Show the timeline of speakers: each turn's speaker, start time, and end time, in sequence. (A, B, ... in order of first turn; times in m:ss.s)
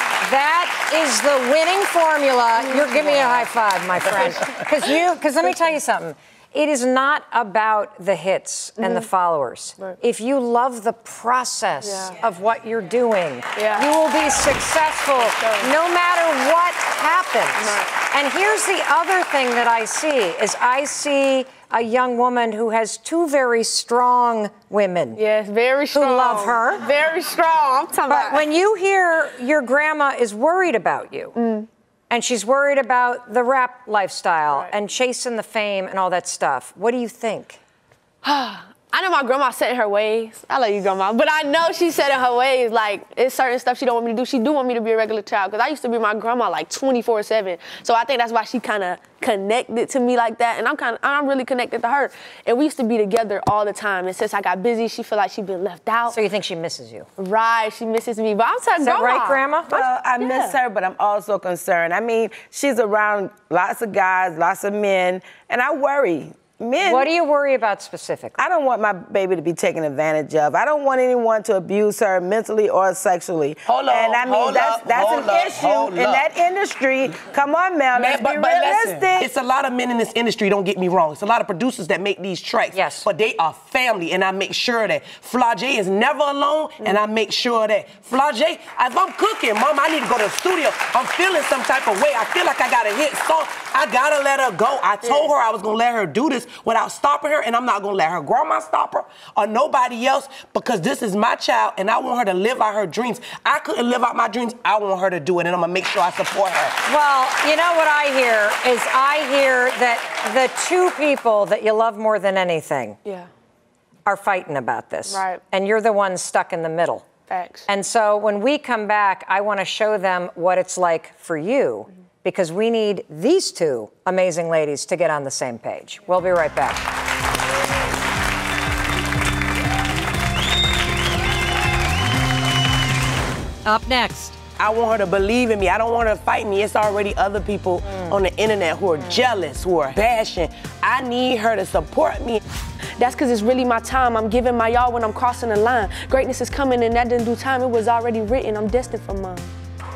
0:00.2-0:25.2 A
0:02.6-0:03.3 B
0:08.8-0:09.1 B
0:11.8-0:12.2 B
0:13.6-0:13.9 B
0:15.2-0:15.7 B
0:17.6-0:17.9 B
0:25.2-0:28.4 B
0:25.9-0:26.8 A
0:28.1-0:31.4 A
0:31.4-0:31.7 B
0:32.1-0:37.6 A
0:38.2-0:56.2 B
0:56.1-0:57.1 A
0:57.2-1:00.6 B
0:58.8-0:59.8 A
0:59.7-1:07.1 C
1:06.8-1:08.4 A
1:08.4-1:19.3 C
1:13.7-1:16.2 D
1:17.9-1:46.8 D
1:22.7-1:23.1 A
1:46.9-1:53.0 A
1:54.1-1:57.1 A
1:55.1-1:55.4 B
1:57.3-1:57.7 B
1:57.7-2:06.8 A
2:13.6-2:14.4 A
2:14.6-2:22.4 D
2:23.0-2:29.5 B